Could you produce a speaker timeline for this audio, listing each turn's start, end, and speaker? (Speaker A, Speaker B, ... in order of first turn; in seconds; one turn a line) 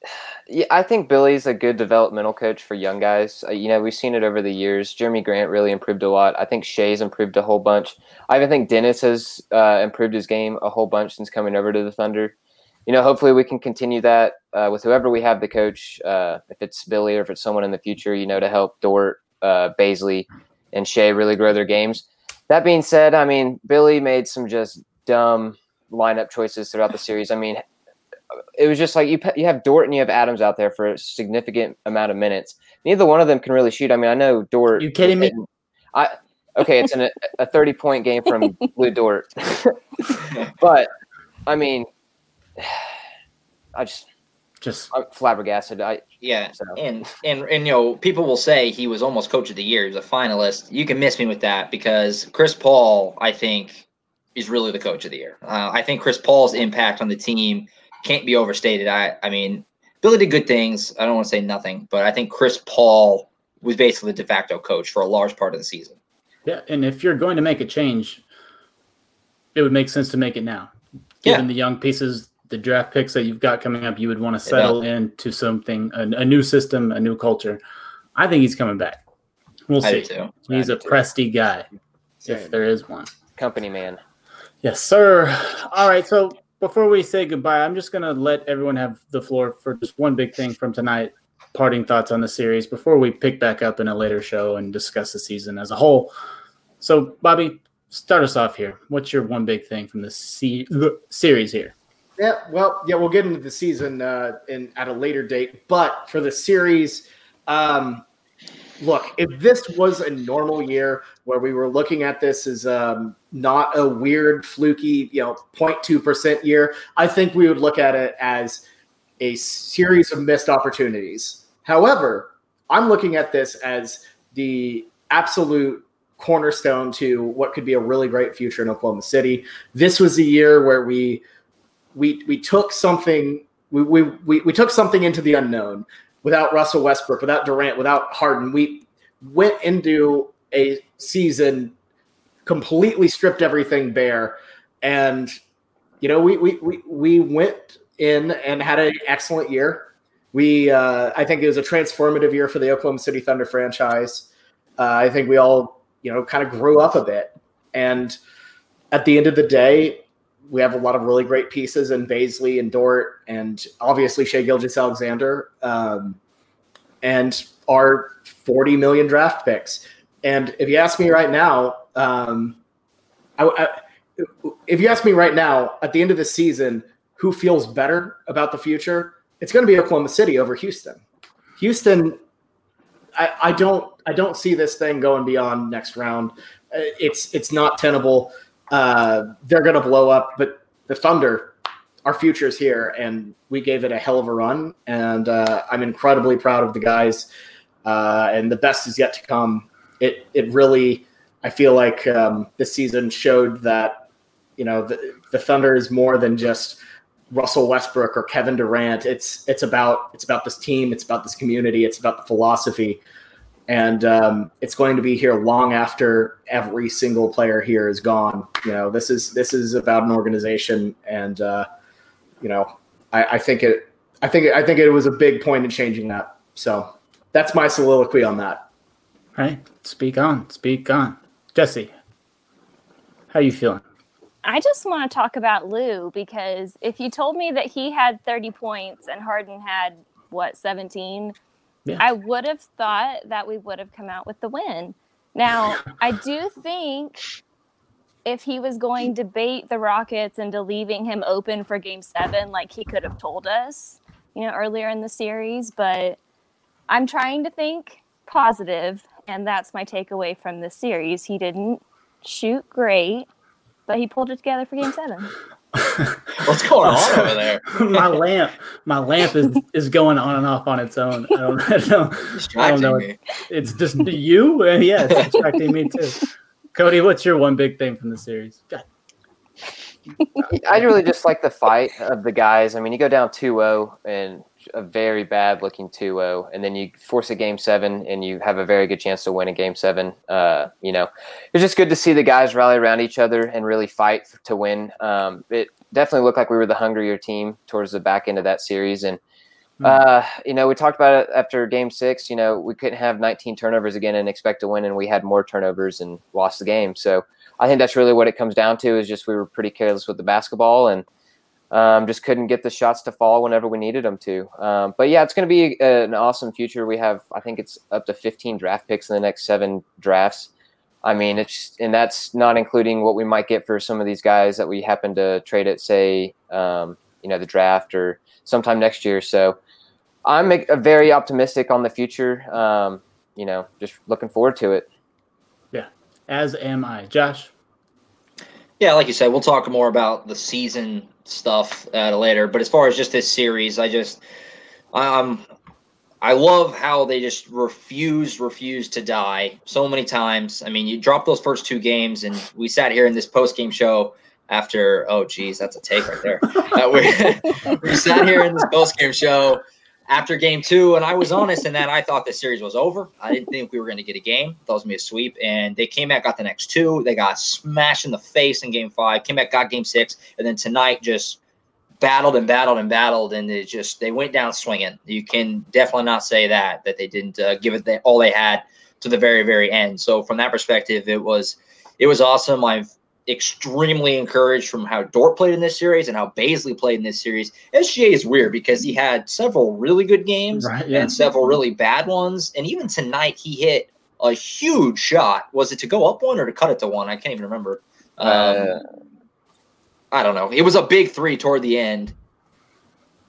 Speaker A: 0.5-12.3
Speaker A: 12.9-27.6
Speaker A: 28.6-40.9
Speaker B: 34.8-35.3
Speaker A: 41.5-41.9
Speaker A: 42.6-42.9
Speaker A: 43.7-44.1
Speaker B: 44.6-44.9
Speaker A: 44.9-46.0
Speaker C: 46.2-66.0
Speaker B: 66.5-68.2
Speaker B: 69.5-70.7
Speaker B: 71.2-77.6
Speaker C: 74.5-74.8
Speaker B: 78.2-79.0
Speaker B: 79.7-81.7
Speaker C: 79.8-80.8
Speaker D: 82.2-82.6
Speaker B: 82.3-83.1
Speaker A: 83.4-84.0
Speaker B: 84.6-96.1
Speaker B: 96.8-101.8
Speaker D: 102.2-108.0
Speaker D: 108.8-118.6
Speaker D: 119.2-131.2
Speaker D: 131.9-141.7
Speaker D: 142.4-145.3
Speaker D: 146.0-158.2
Speaker D: 158.9-166.2
Speaker D: 167.0-172.6
Speaker D: 173.4-181.0
Speaker D: 181.6-182.2
Speaker D: 183.2-191.5
Speaker D: 192.1-197.3
Speaker D: 197.8-204.1
Speaker D: 204.6-206.8
Speaker D: 207.3-213.0
Speaker D: 213.7-221.7
Speaker D: 222.4-228.6
Speaker B: 229.4-231.9
Speaker B: 233.3-233.8
Speaker E: 234.4-241.3
Speaker E: 242.0-247.2
Speaker E: 248.2-256.2
Speaker E: 256.9-263.3
Speaker E: 263.9-265.3
Speaker B: 265.8-278.9
Speaker C: 266.4-268.2
Speaker C: 272.3-273.2
Speaker A: 280.5-299.2
Speaker A: 299.8-311.1
Speaker A: 311.7-320.5
Speaker A: 321.0-329.6
Speaker A: 330.2-334.9
Speaker B: 335.7-337.5
Speaker C: 338.8-344.2
Speaker C: 344.9-345.4
Speaker C: 346.2-371.4
Speaker C: 372.0-398.7
Speaker B: 390.6-391.1
Speaker A: 398.2-398.8
Speaker C: 400.1-402.1